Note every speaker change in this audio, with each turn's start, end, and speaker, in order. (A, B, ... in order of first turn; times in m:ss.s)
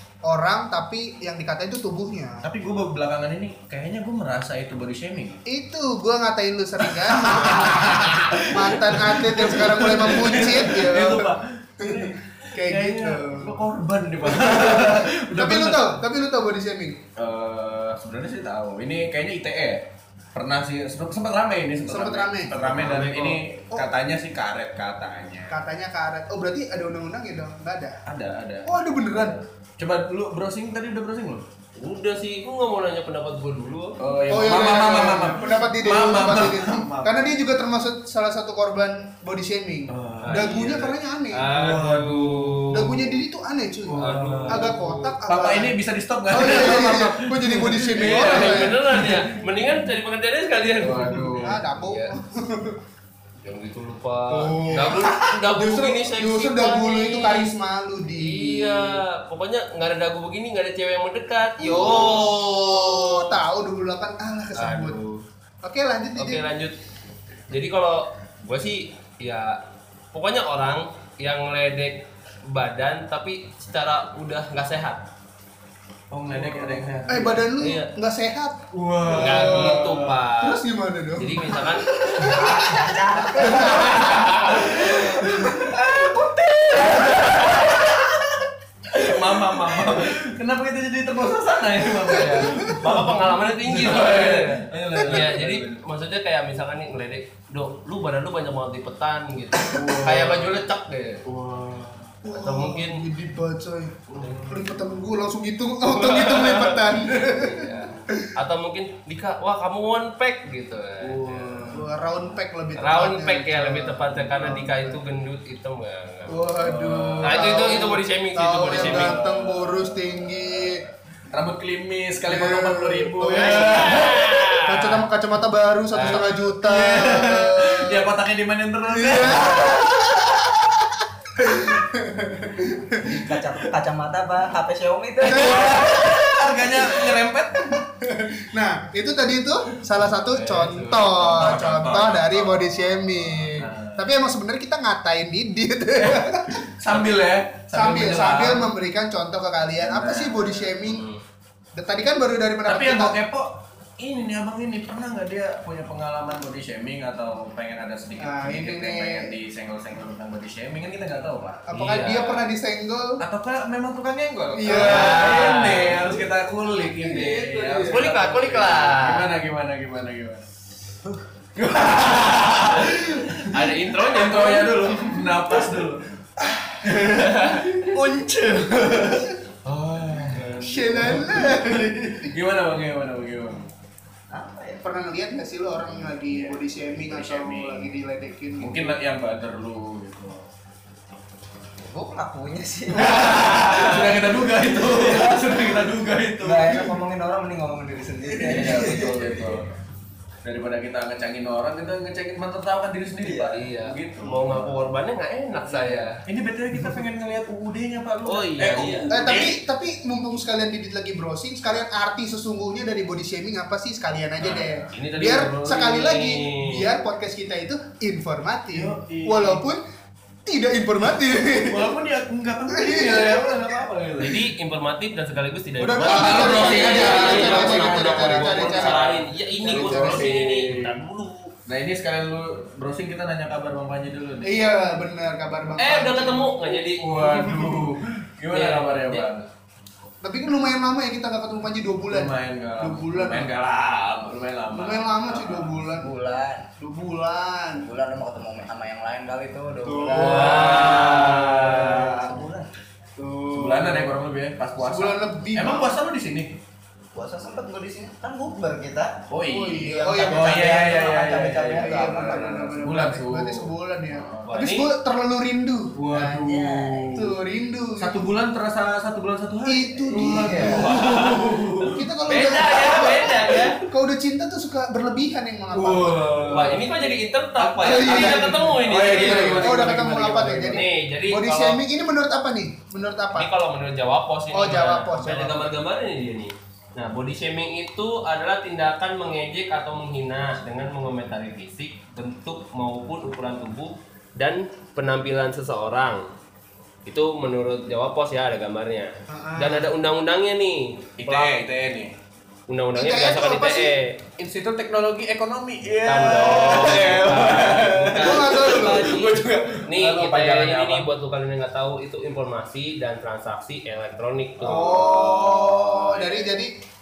0:00.3-0:02.5 A
0:02.4-0:05.4 B
0:05.5-0:13.6 A
0:06.8-0:16.0 B
0:14.2-0:17.0 A
0:17.2-0:25.6 B
0:21.9-0:23.0 A
0:22.7-0:23.4 C
0:25.5-0:28.0 A
0:28.1-0:31.4 B
0:28.7-0:29.4 A
0:31.8-0:34.0 C
0:34.0-0:37.3 B
0:34.3-0:41.5 A
0:39.9-0:40.5 B
0:40.2-0:43.2 C
0:41.4-0:42.7 B
0:42.7-0:45.8 A
0:43.9-0:49.7 B
0:44.0-0:45.2 C
0:46.3-0:48.8 A
0:48.0-0:52.1 C
0:50.8-0:51.6 B
0:51.4-0:52.8 A
0:53.4-0:57.5 C
0:54.3-0:59.0 A
0:54.4-0:55.1 B
0:58.2-1:03.4 C
1:01.6-1:05.0 A
1:04.6-1:05.2 C
1:05.6-1:06.5 A
1:06.2-1:06.8 C
1:07.5-1:09.6 C
1:10.1-1:15.0 C
1:16.1-1:17.5 B
1:16.6-1:17.0 C
1:17.1-1:25.5 A
1:17.6-1:17.9 C
1:18.7-1:20.2 B
1:19.0-1:20.6 C
1:21.2-1:22.3 C
1:22.2-1:28.3 B
1:22.3-1:24.2 D
1:23.4-1:25.0 C
1:26.9-1:27.7 C
1:28.9-1:35.8 B
1:29.0-1:30.2 C
1:32.1-1:32.8 A
1:32.5-1:41.2 C
1:39.6-1:40.6 B
1:41.2-1:42.1 B
1:42.2-1:48.3 A
1:42.3-1:43.1 C
1:44.1-1:45.1 B
1:45.9-1:51.7 C
1:51.0-1:51.9 B
1:51.7-1:55.0 A
1:52.8-1:56.4 C
1:54.2-1:54.7 B
1:56.3-2:00.8 A
1:56.5-1:57.8 B
1:57.2-1:59.2 C
1:58.7-2:04.3 B
2:02.2-2:04.1 A
2:03.4-2:05.0 C
2:04.6-2:08.1 A
2:05.9-2:06.2 C
2:06.0-2:10.2 B
2:08.9-2:13.3 A
2:13.0-2:16.4 D
2:15.2-2:17.8 B
2:15.2-2:16.8 A
2:17.6-2:26.6 A
2:20.3-2:21.6 C
2:20.6-2:24.1 B
2:26.0-2:28.7 B
2:27.7-2:31.0 A
2:29.8-2:30.8 B
2:30.9-2:31.2 C
2:31.8-2:33.2 A
2:32.7-2:41.6 B
2:38.2-2:39.4 A
2:41.6-2:43.2 A
2:41.7-2:42.5 C
2:43.2-2:50.4 B
2:44.5-2:45.5 A
2:44.7-2:46.0 C
2:46.9-2:48.1 A
2:47.8-2:49.3 C
2:51.6-2:56.1 B
2:52.7-2:55.1 C
2:56.4-2:57.2 A
2:56.8-3:03.7 B
2:57.2-2:57.9 C
2:57.8-2:59.3 A
3:00.4-3:02.3 A
3:04.3-3:04.8 D
3:04.8-3:09.0 A
3:06.0-3:08.0 B
3:08.6-3:10.5 B
3:11.8-3:14.0 D
3:12.9-3:16.9 B
3:13.2-3:14.1 C
3:14.7-3:15.6 D
3:16.4-3:19.6 D
3:18.4-3:19.7 B
3:18.8-3:19.1 A
3:20.4-3:24.9 B
3:23.2-3:23.6 D
3:23.4-3:26.2 C
3:25.6-3:26.1 D
3:26.3-3:29.6 B
3:26.7-3:27.0 D
3:28.2-3:29.5 C
3:29.1-3:39.8 A
3:34.4-3:35.9 B
3:34.9-3:36.9 C
3:38.7-3:39.6 B
3:40.5-3:41.9 A
3:41.5-3:44.5 B
3:42.7-3:43.8 A
3:44.2-3:51.5 C
3:45.8-3:50.4 A
3:46.0-3:51.0 B
3:51.7-3:54.7 B
3:54.4-3:57.9 A
3:55.8-3:57.2 C
3:57.0-3:59.5 B
3:58.5-3:59.3 C
4:00.2-4:03.5 A
4:02.1-4:05.8 B
4:04.7-4:06.1 A
4:05.9-4:06.7 D
4:06.8-4:07.9 A
4:07.8-4:12.7 D
4:09.9-4:11.0 A
4:09.9-4:12.4 B
4:10.2-4:12.0 C
4:13.2-4:14.2 A
4:13.5-4:16.6 B
4:14.8-4:16.0 A
4:17.2-4:19.2 D
4:19.3-4:24.5 B
4:19.5-4:21.0 A
4:19.8-4:22.8 D
4:21.7-4:26.4 A
4:24.5-4:24.9 C
4:26.0-4:27.4 B
4:26.1-4:27.2 D
4:27.1-4:28.3 A
4:28.0-4:32.0 B
4:29.6-4:30.9 A
4:30.1-4:30.9 D
4:30.8-4:31.6 C
4:31.8-4:36.8 A
4:32.3-4:33.8 C
4:32.8-4:33.7 B
4:35.7-4:37.0 B
4:36.5-4:39.8 C
4:37.6-4:40.9 B
4:37.8-4:43.5 A
4:40.7-4:41.8 C
4:43.4-4:56.3 C
4:44.5-4:45.8 A
4:57.1-5:01.6 C
4:59.3-4:59.9 A
5:01.2-5:02.1 B
5:02.7-5:04.2 C
5:03.0-5:03.9 A
5:04.4-5:11.1 B
5:06.0-5:15.0 C
5:08.2-5:09.2 A
5:14.6-5:16.5 B
5:14.6-5:16.8 A